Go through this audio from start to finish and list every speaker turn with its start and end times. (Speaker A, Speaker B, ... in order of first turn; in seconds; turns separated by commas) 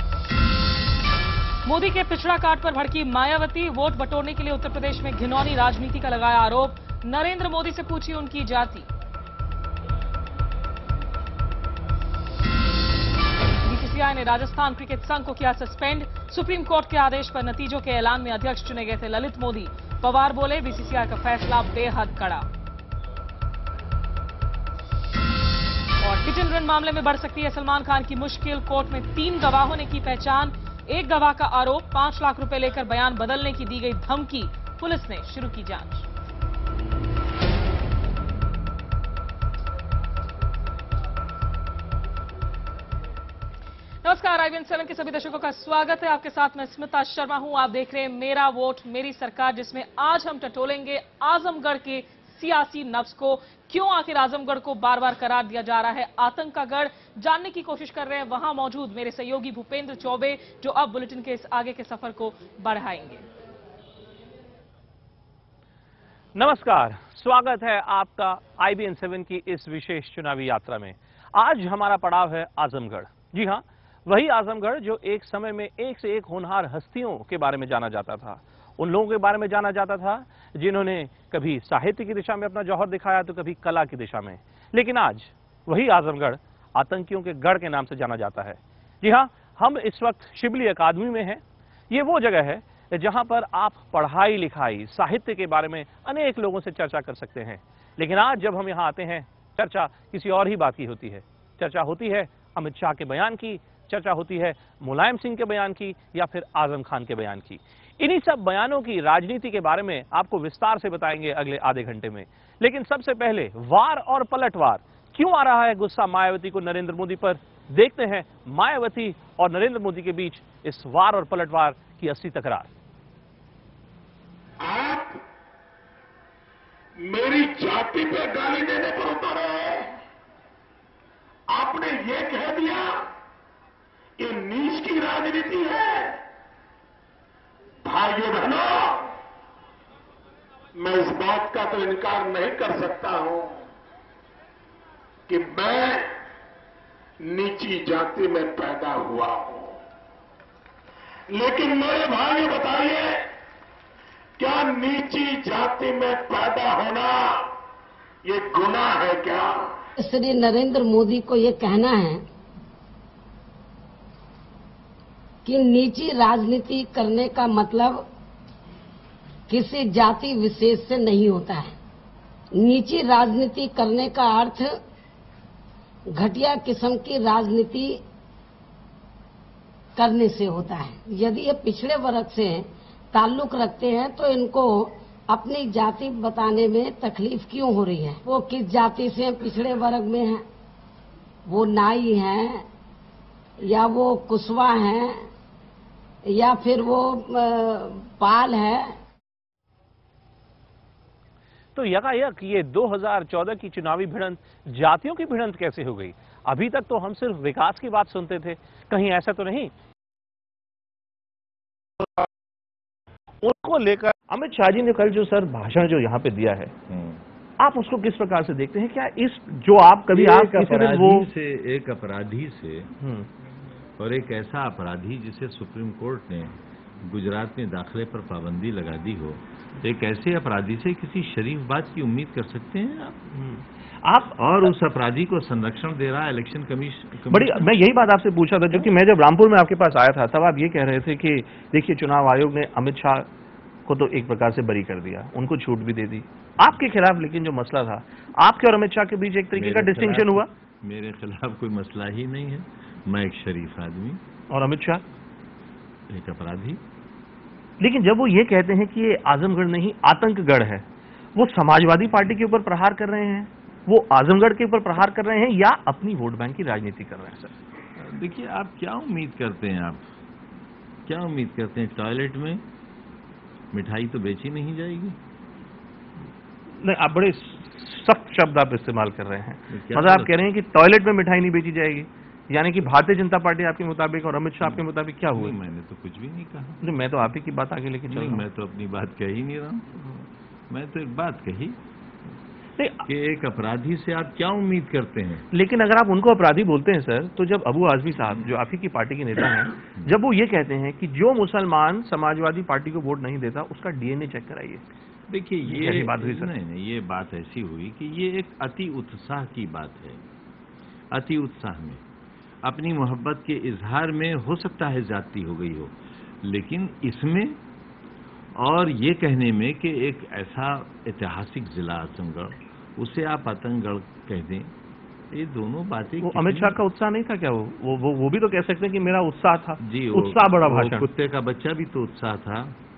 Speaker A: 1.6-8.8, Speaker A: 13.7-22.5, Speaker A: 26.0-36.0, Speaker A: 44.0-63.2, Speaker B: 66.3-122.7, Speaker C: 124.6-125.2, Speaker C: 127.0-130.0, Speaker C: 131.5-133.1, Speaker C: 134.2-136.2, Speaker C: 137.8-139.2, Speaker C: 140.7-143.6, Speaker C: 145.3-146.1, Speaker C: 147.2-149.8, Speaker C: 151.3-153.3, Speaker C: 154.4-157.5, Speaker C: 158.2-159.8, Speaker D: 160.0-162.2, Speaker D: 165.4-168.1, Speaker D: 169.5-171.7, Speaker D: 172.5-174.7, Speaker D: 176.1-178.0, Speaker D: 179.9-190.4, Speaker D: 191.5-192.6, Speaker D: 193.6-195.2, Speaker D: 196.3-198.9, Speaker B: 201.7-209.7, Speaker B: 213.4-216.7, Speaker E: 216.9-217.2, Speaker B: 217.6-221.3, Speaker E: 220.1-222.9, Speaker B: 223.0-223.3, Speaker E: 224.0-233.2, Speaker B: 233.3-234.7, Speaker E: 234.4-237.8, Speaker B: 237.3-243.3, Speaker B: 243.8-250.4, Speaker E: 249.5-254.2, Speaker B: 254.5-255.0, Speaker E: 256.1-256.8, Speaker B: 257.8-260.8, Speaker B: 261.4-267.5, Speaker E: 268.0-270.0, Speaker E: 271.1-272.6, Speaker E: 273.7-275.1, Speaker B: 276.8-285.5, Speaker E: 279.7-280.5, Speaker E: 284.6-286.8, Speaker B: 286.8-288.4, Speaker E: 288.1-290.1, Speaker E: 290.7-291.8, Speaker B: 292.8-293.1, Speaker E: 293.1-295.4, Speaker B: 295.5-304.8, Speaker E: 298.2-298.6, Speaker E: 305.3-310.2, Speaker B: 305.6-306.5, Speaker E: 311.1-312.0, Speaker E: 312.6-317.6, Speaker E: 318.6-324.7, Speaker E: 325.3-326.8, Speaker B: 326.2-331.1, Speaker E: 329.8-332.7